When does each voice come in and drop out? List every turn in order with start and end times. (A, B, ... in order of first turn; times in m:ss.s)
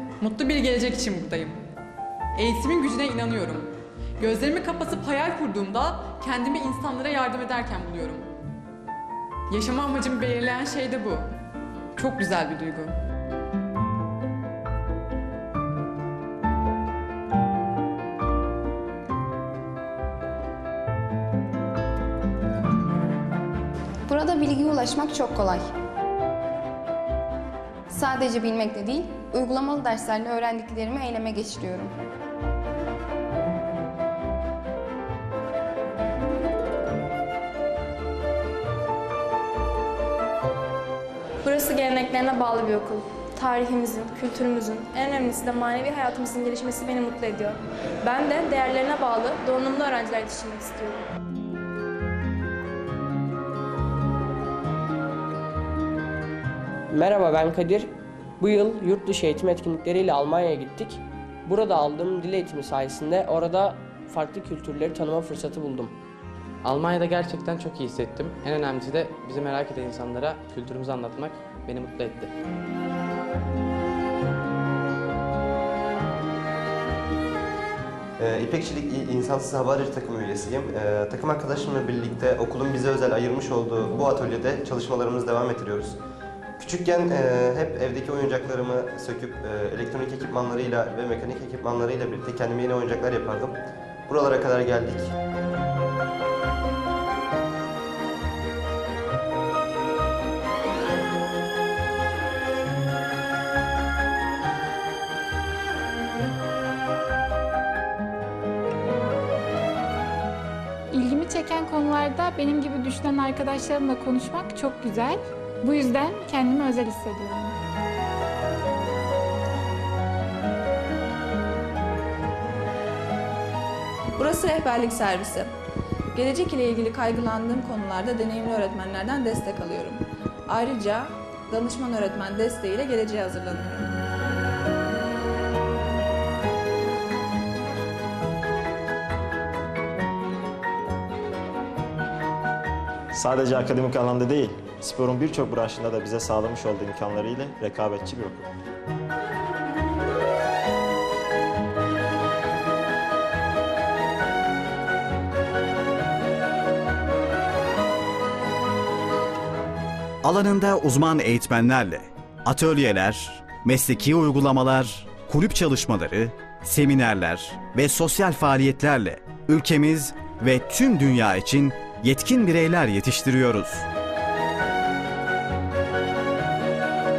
0:00.2-0:01.6 A
0:02.4-0:08.3 A
0:09.5-0:11.3 A
0:12.0-0:13.0 A
0:24.1-0:25.7 B
0:27.9-0:31.9 B
0:41.4-0:51.0 C
0:56.9-1:06.0 D
1:06.6-1:12.3 E
1:18.2-1:26.0 F
1:26.6-1:33.6 F
1:34.1-1:35.1 F
1:50.9-1:57.6 G
2:04.2-2:05.5 H
2:06.1-2:13.9 H
2:23.1-2:28.5 I
2:40.2-2:53.9 J